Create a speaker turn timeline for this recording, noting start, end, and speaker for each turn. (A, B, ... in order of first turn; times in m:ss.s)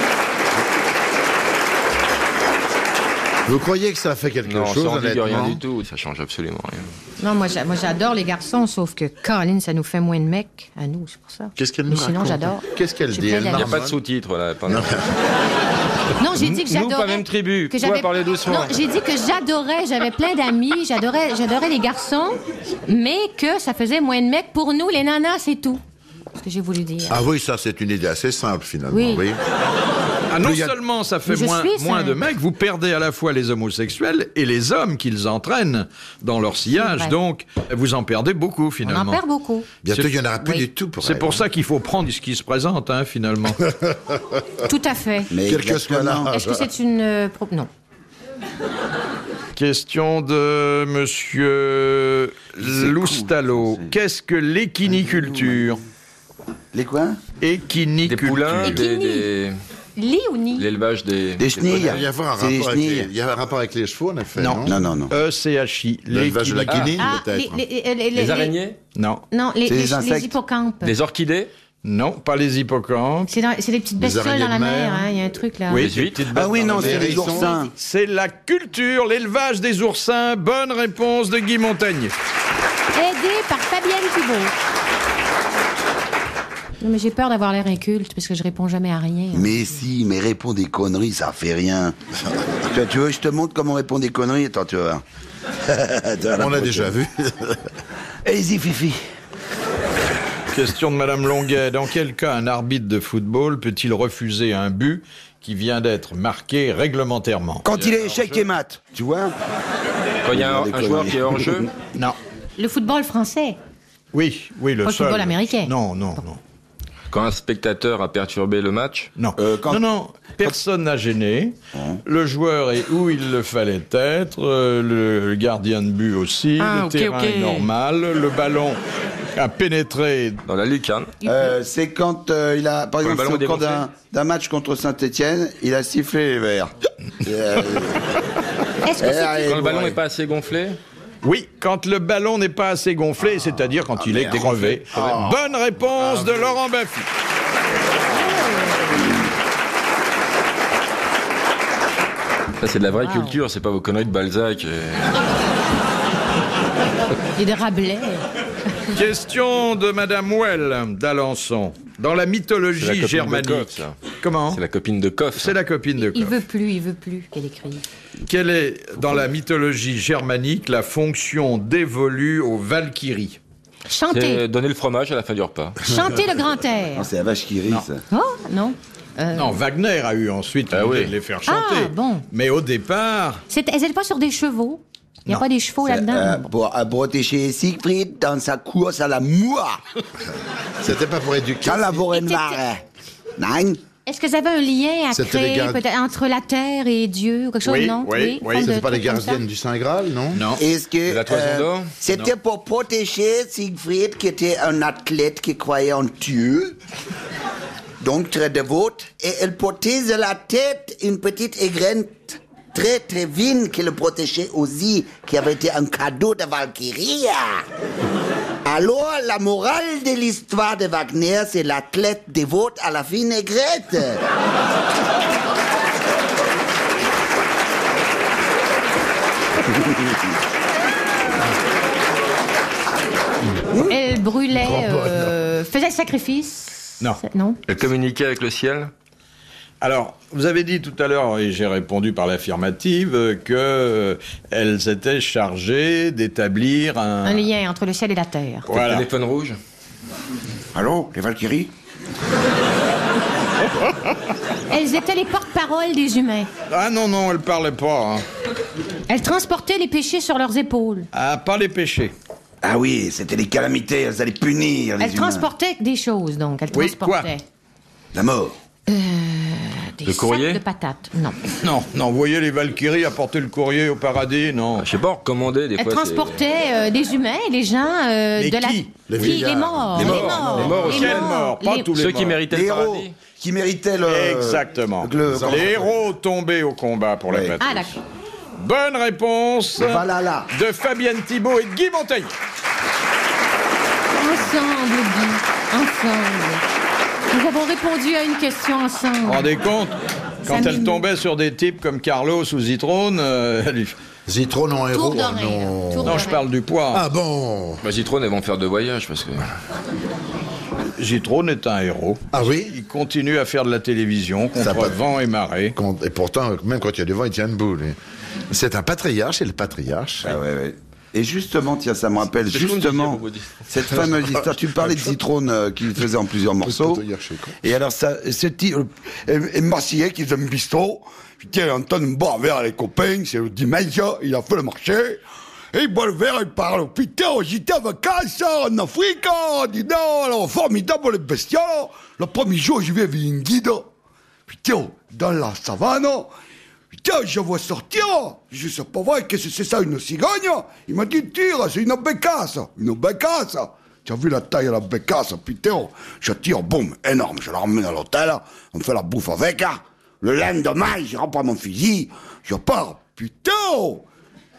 0:03.5-0:05.6 A
0:04.4-0:06.9 B
0:07.2-0:13.8 C
0:11.6-0:14.0 A
0:13.5-0:14.9 B
0:14.7-0:15.1 A
0:16.2-0:25.8 C
0:16.4-0:18.8 B
0:26.4-0:27.2 C
0:27.1-0:29.4 A
0:28.9-0:29.3 C
0:30.3-0:39.2 D
0:30.4-0:30.8 A
0:31.3-0:32.2 C
0:36.7-0:37.2 C
0:38.8-0:39.7 C
0:39.8-0:41.5 A
0:41.0-0:43.6 D
0:44.7-0:45.3 C
0:45.3-0:46.3 E
0:45.4-0:46.7 A
0:46.3-0:47.7 C
0:49.6-0:55.8 D
0:52.6-0:54.0 E
0:54.9-0:55.8 E
0:56.7-0:57.2 E
0:57.4-0:58.8 D
0:58.0-0:59.6 B
0:58.6-0:59.3 C
1:00.0-1:00.7 C
1:00.6-1:01.9 B
1:01.4-1:03.1 E
1:01.6-1:04.8 A
1:04.4-1:07.0 D
1:04.7-1:05.2 E
1:06.1-1:07.6 A
1:06.7-1:07.0 B
1:07.0-1:08.6 C
1:08.2-1:08.8 B
1:09.0-1:09.2 D
1:09.3-1:10.9 C
1:09.6-1:10.3 E
1:10.8-1:11.5 B
1:11.8-1:13.3 D
1:13.3-1:15.9 C
1:14.0-1:15.1 A
1:15.7-1:22.1 D
1:15.7-1:16.3 B
1:16.3-1:17.7 E
1:16.6-1:17.5 A
1:22.9-1:24.5 C
1:26.8-1:29.8 C
1:29.3-1:32.0 E
1:32.7-1:35.0 E
1:35.7-1:37.0 E
1:36.3-1:37.6 A
1:38.2-1:39.0 E
1:40.5-1:47.7 D
1:47.6-1:49.4 E
1:50.2-1:51.7 B
1:50.3-1:51.6 E
1:52.6-1:53.6 C
1:54.1-1:56.4 D
1:54.8-1:55.7 C
1:57.1-1:59.1 B
1:59.2-2:01.6 D
1:59.4-1:59.8 E
2:01.8-2:02.0 E
2:02.1-2:08.8 D
2:06.7-2:07.6 B
2:09.4-2:10.4 D
2:10.5-2:11.1 B
2:11.2-2:11.5 C
2:11.2-2:18.1 E
2:13.0-2:13.8 B
2:18.8-2:19.6 C
2:18.9-2:20.0 E
2:19.4-2:20.8 B
2:21.2-2:27.1 D
2:24.0-2:25.2 E
2:24.9-2:25.4 A
2:26.0-2:26.5 A
2:28.1-2:28.8 C
2:32.6-2:35.2 B
2:32.9-2:33.4 C
2:37.4-2:38.2 C
2:38.9-2:44.6 D
2:42.8-2:45.6 B
2:45.4-2:46.4 D
2:46.0-2:47.9 C
2:48.3-2:53.4 D
2:53.9-2:54.4 C
2:54.1-2:55.8 B
2:55.8-2:57.1 C
2:57.0-2:58.0 E
2:58.1-2:59.6 C
2:59.3-3:03.4 D
3:00.7-3:01.1 B
3:01.5-3:02.3 C
3:03.5-3:06.5 C
3:05.8-3:09.8 E
3:10.8-3:12.0 A
3:11.6-3:12.8 E
3:12.1-3:12.6 C
3:13.4-3:13.8 E
3:14.1-3:19.4 C
3:15.1-3:15.8 A
3:17.6-3:18.7 D
3:18.6-3:20.4 A
3:20.3-3:20.6 D
3:20.5-3:26.8 E
3:21.1-3:21.9 B
3:28.0-3:37.6 E
3:38.6-3:44.2 E
3:53.7-3:57.6 C
3:57.7-3:58.9 B
3:59.8-4:07.4 D
4:07.2-4:08.7 C
4:08.7-4:09.6 B
4:08.7-4:09.1 D
4:10.7-4:11.7 E
4:14.7-4:16.5 C
4:16.7-4:18.2 D
4:19.1-4:21.1 C
4:21.1-4:22.1 D
4:22.6-4:25.5 E
4:25.0-4:27.4 C
4:26.7-4:27.3 D
4:28.1-4:28.6 E
4:28.9-4:31.4 C
4:30.1-4:30.6 B
4:31.6-4:34.9 D
4:34.8-4:36.4 B
4:35.8-4:41.9 C
4:38.4-4:39.4 D
4:39.1-4:40.2 A
4:40.0-4:41.4 B
4:40.0-4:40.9 E
4:40.1-4:42.4 D
4:41.9-4:43.2 B
4:42.5-4:46.0 E
4:44.1-4:48.0 D
4:45.3-4:45.7 A
4:47.3-4:47.6 E
4:47.6-4:48.0 C
4:48.6-4:52.3 D
4:49.8-4:50.5 E
4:54.2-4:56.7 C
4:57.3-4:59.6 C
4:59.2-5:04.0 D
5:00.5-5:01.0 C
5:04.3-5:06.3 A
5:04.9-5:06.4 C
5:06.0-5:07.1 D
5:06.9-5:07.8 A
5:07.8-5:09.5 B
5:11.0-5:15.8 D
5:12.3-5:12.8 A
5:14.6-5:15.0 A
5:15.8-5:18.0 A
5:18.5-5:20.4 A
5:20.2-5:27.0 E
5:22.4-5:23.6 B
5:26.6-5:27.6 A
5:27.6-5:35.2 E
5:35.7-5:43.9 E
5:44.5-5:46.3 E
5:46.9-6:04.0 E